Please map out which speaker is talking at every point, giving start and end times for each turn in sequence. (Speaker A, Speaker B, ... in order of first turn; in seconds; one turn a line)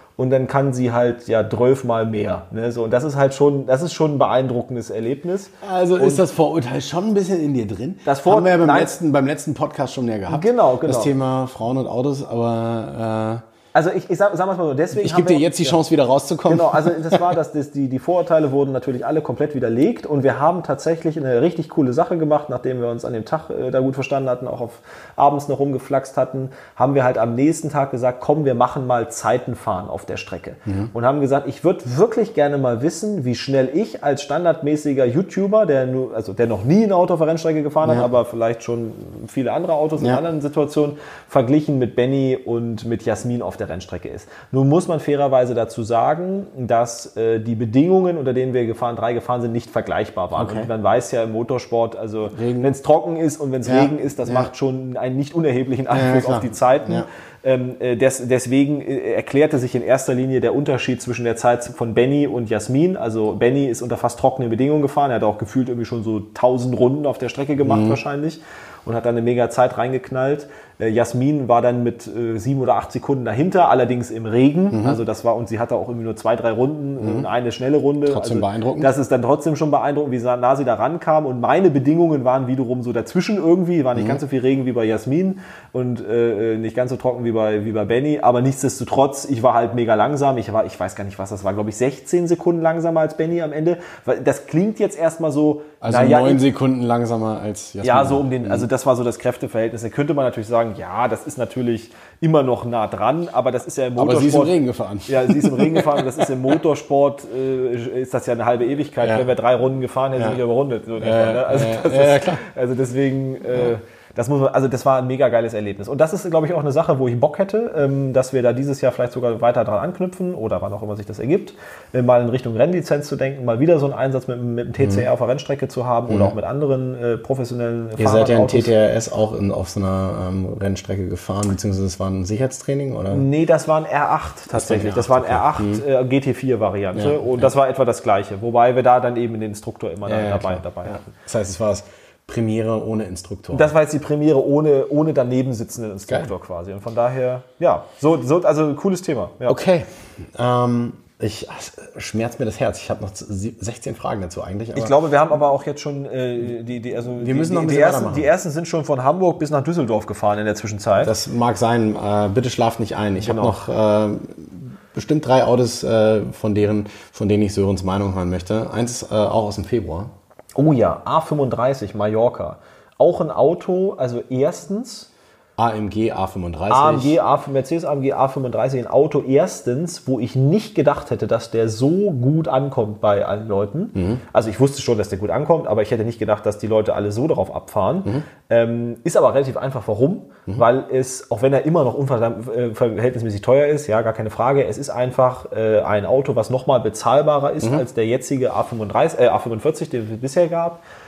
Speaker A: 0.2-6.2
Speaker B: 5.6-13.4
Speaker A: 8.0-8.9
Speaker A: 10.3-11.1
Speaker A: 13.7-15.8
Speaker B: 14.9-17.3
Speaker A: 16.4-96.4
Speaker B: 30.7-30.9
Speaker B: 50.3-50.7
Speaker B: 52.3-52.7
Speaker B: 53.6-54.5
Speaker B: 55.9-57.1
Speaker B: 67.6-68.0
Speaker B: 74.7-75.0
Speaker B: 77.0-77.3
Speaker B: 78.0-78.9
Speaker B: 83.9-84.2
Speaker B: 95.8-98.7
Speaker A: 97.8-128.7
Speaker B: 104.0-106.3
Speaker B: 111.0-112.4
Speaker B: 124.8-125.1
Speaker B: 126.1-126.3
Speaker B: 128.0-133.2
Speaker A: 133.1-141.1
Speaker B: 134.5-135.8
Speaker B: 136.9-137.5
Speaker B: 140.1-143.7
Speaker A: 143.5-149.6
Speaker B: 149.5-154.9
Speaker A: 154.7-161.1
Speaker B: 157.2-158.3
Speaker B: 161.0-170.1
Speaker A: 163.2-163.6
Speaker A: 170.5-175.1
Speaker B: 175.6-177.2
Speaker A: 176.7-200.8
Speaker B: 183.9-184.2